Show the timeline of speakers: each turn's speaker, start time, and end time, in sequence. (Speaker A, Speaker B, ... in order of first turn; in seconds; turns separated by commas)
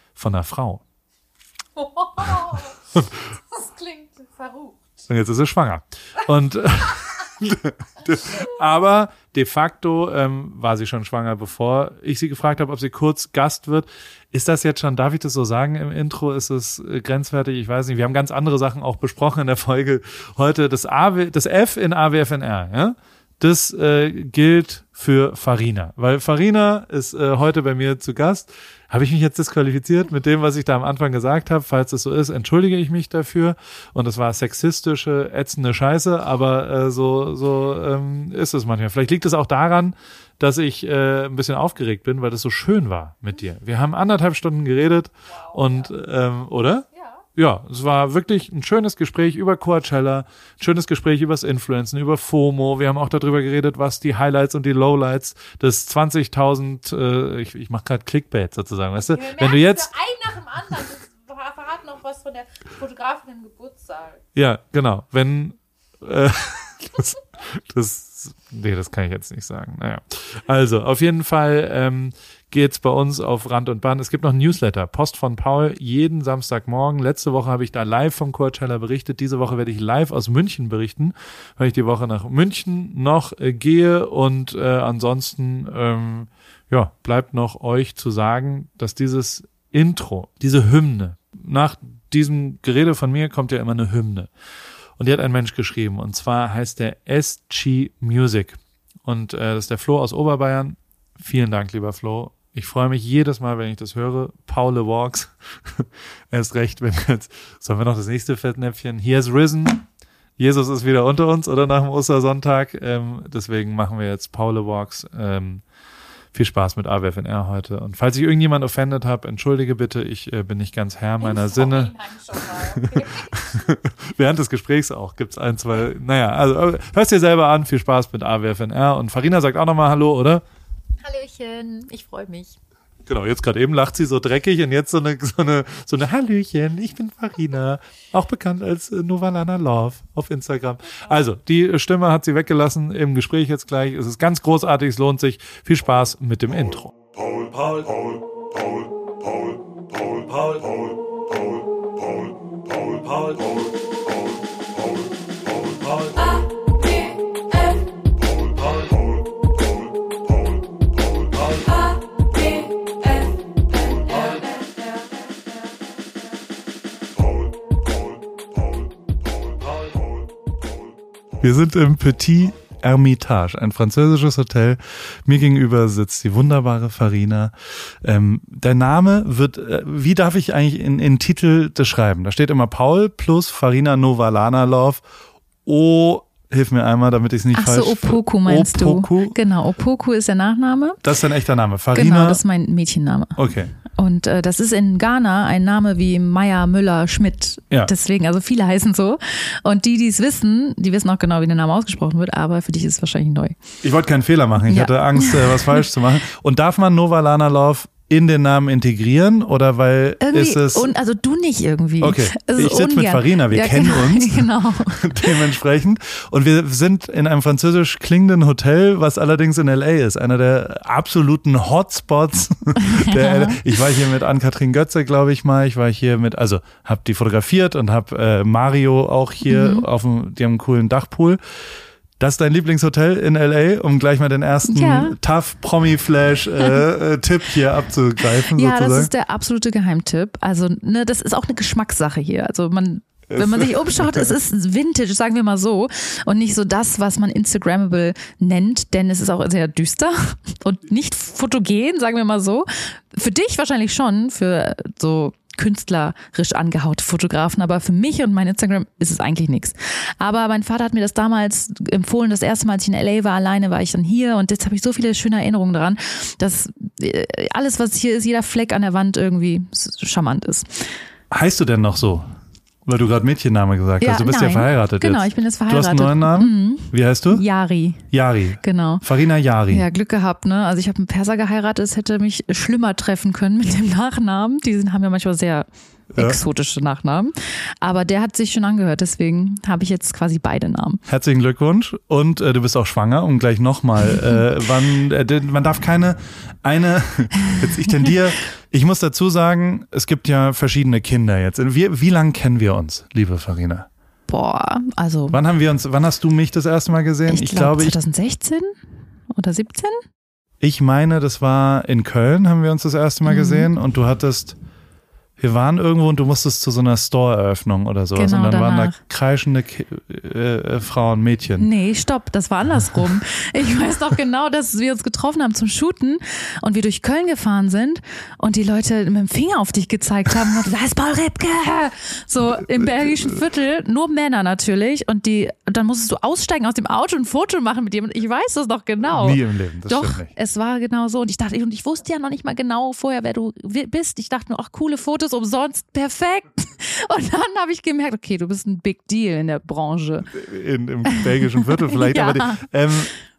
Speaker A: 0.2-0.8, Speaker B: 1.8-2.7, Speaker A: 3.0-3.2, Speaker B: 3.5-4.8, Speaker A: 5.1-59.9, Speaker B: 59.1-64.2, Speaker A: 64.3-94.3, Speaker A: 95.0-109.8, Speaker A: 110.4-115.6, Speaker A: 116.3-121.9, Speaker B: 121.2-123.4, Speaker A: 122.6-130.4, Speaker B: 131.0-132.6, Speaker A: 133.1-146.9, Speaker A: 147.5-148.1, Speaker B: 163.9-164.5, Speaker A: 171.4-185.0, Speaker A: 185.7-189.4, Speaker B: 187.5-191.0, Speaker A: 191.0-192.4, Speaker B: 191.9-193.4, Speaker A: 193.4-193.7, Speaker B: 193.9-203.6, Speaker A: 203.8-210.9, Speaker B: 204.7-205.8, Speaker B: 210.2-215.5, Speaker A: 212.0-231.4, Speaker B: 222.8-223.6, Speaker B: 229.5-229.9, Speaker A: 232.2-239.1, Speaker B: 234.7-235.2, Speaker B: 238.2-271.0, Speaker A: 243.3-244.3, Speaker A: 271.3-272.3, Speaker A: 272.9-277.4, Speaker B: 274.0-278.1, Speaker A: 278.1-279.8, Speaker B: 278.6-279.1, Speaker B: 279.7-291.0, Speaker A: 291.1-303.9, Speaker B: 297.6-298.1, Speaker B: 304.3-305.4, Speaker A: 305.3-308.0, Speaker B: 307.3-308.8, Speaker B: 309.3-310.0, Speaker A: 310.6-314.6, Speaker B: 313.2-313.7, Speaker A: 315.4-321.7, Speaker B: 318.1-319.0, Speaker B: 321.6-350.3, Speaker A: 332.6-333.4, Speaker A: 339.1-340.3, Speaker A: 350.3-353.1, Speaker B: 351.1-352.7